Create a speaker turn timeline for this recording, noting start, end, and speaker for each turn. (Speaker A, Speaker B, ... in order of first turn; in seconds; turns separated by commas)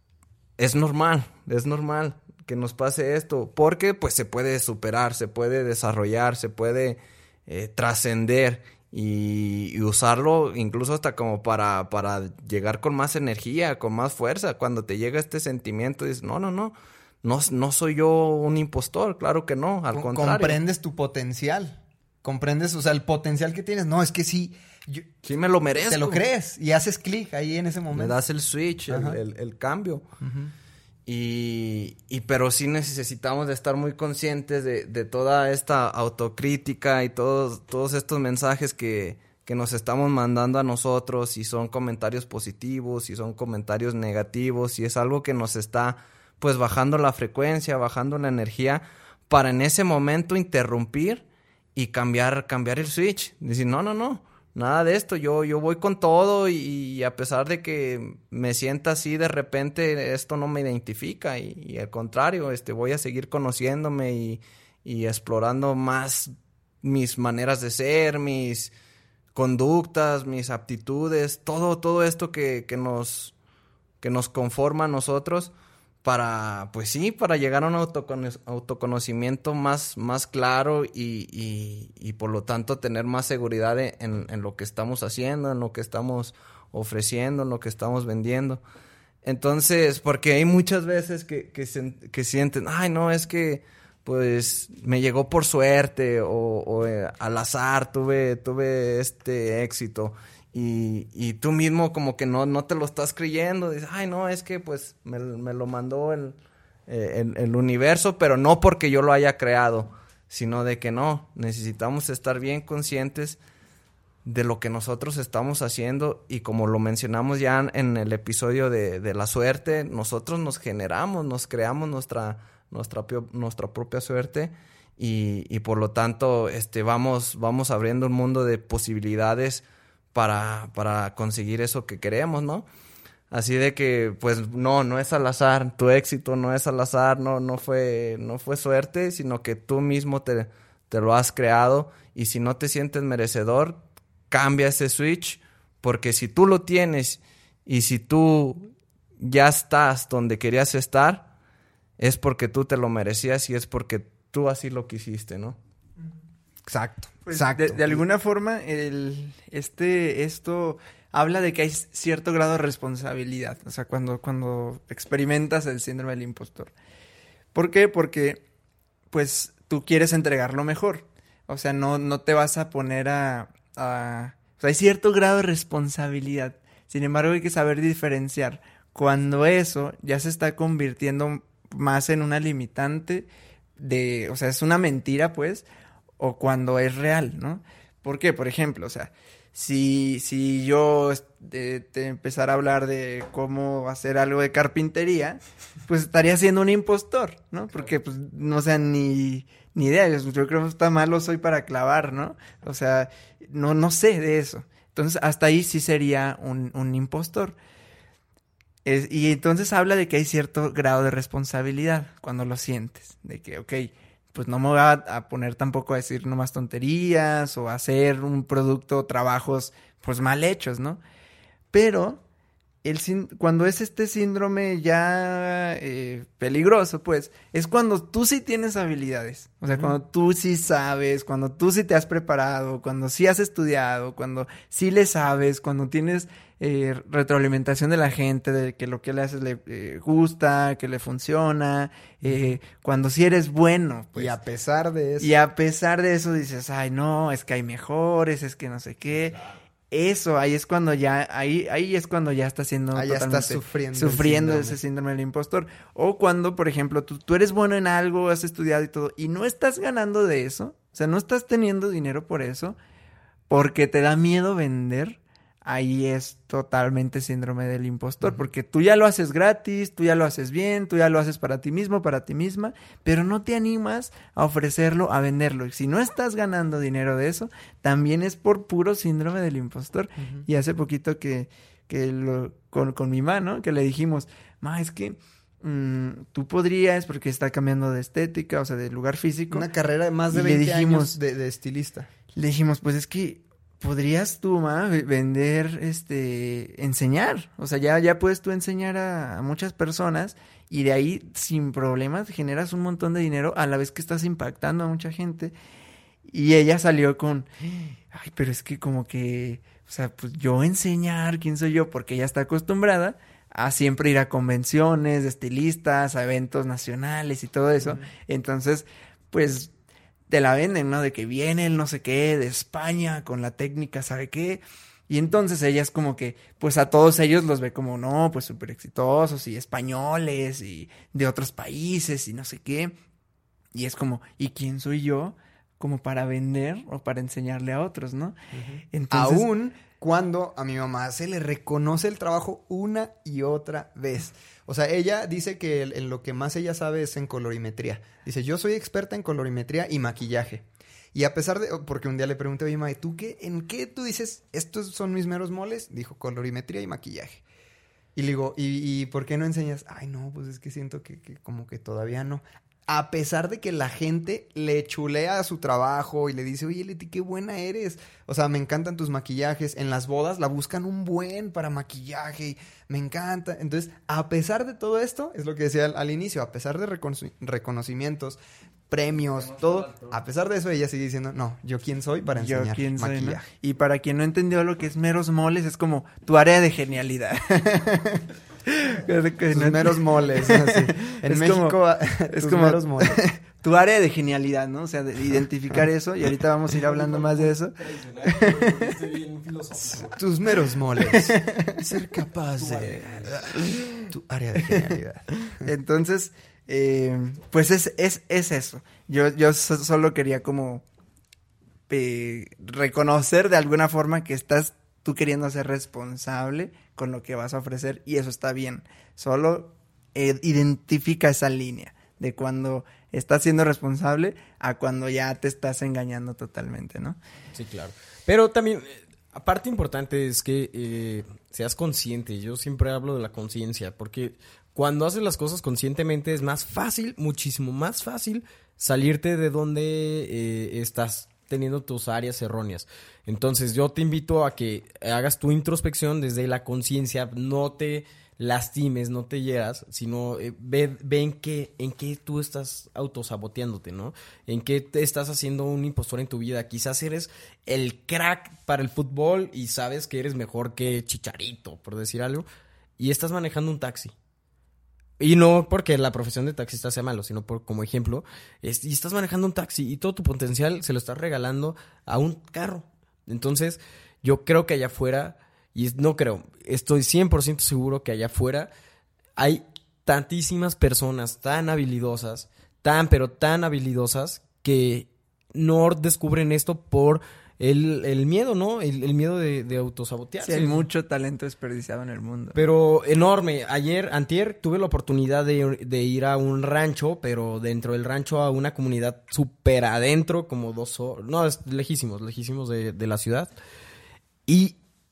Speaker A: 0.6-20.6, Speaker B: 19.9-25.1, Speaker A: 25.2-26.2, Speaker B: 25.9-28.2, Speaker A: 27.9-30.0, Speaker B: 28.9-29.2, Speaker B: 30.2-30.5, Speaker A: 31.1-51.2, Speaker A: 51.7-68.7, Speaker A: 69.3-73.3, Speaker A: 74.0-75.5, Speaker A: 76.0-88.6, Speaker A: 89.2-106.3, Speaker A: 106.9-113.4, Speaker A: 114.2-132.7, Speaker A: 133.3-151.3, Speaker A: 152.0-155.6, Speaker B: 156.7-158.0, Speaker C: 157.3-166.7, Speaker C: 167.5-168.4, Speaker C: 169.1-185.7, Speaker C: 186.2-207.6, Speaker C: 208.8-221.0, Speaker C: 221.7-222.2, Speaker C: 222.8-244.3, Speaker B: 242.2-242.5, Speaker B: 244.1-245.3, Speaker C: 245.2-262.8, Speaker B: 252.9-254.8, Speaker C: 263.5-289.6, Speaker B: 280.2-280.4, Speaker B: 289.5-292.1, Speaker C: 290.3-291.2, Speaker C: 292.3-305.5, Speaker C: 306.3-319.7, Speaker C: 320.3-332.9, Speaker C: 333.7-338.4, Speaker B: 338.5-357.4, Speaker C: 338.9-339.5, Speaker B: 358.1-378.4, Speaker B: 378.9-383.4, Speaker C: 382.4-387.6, Speaker B: 387.6-388.2, Speaker C: 388.7-391.8, Speaker B: 389.5-393.3, Speaker C: 392.3-398.9, Speaker D: 396.8-400.2, Speaker B: 400.1-403.4, Speaker C: 401.0-401.5, Speaker D: 402.5-403.4, Speaker C: 403.6-404.1, Speaker B: 404.1-405.7, Speaker C: 405.5-410.8, Speaker C: 411.9-427.2, Speaker D: 427.5-462.4, Speaker D: 463.0-464.1, Speaker D: 465.2-478.7, Speaker D: 479.4-490.9, Speaker C: 490.4-492.6, Speaker D: 492.5-503.5, Speaker D: 504.5-504.8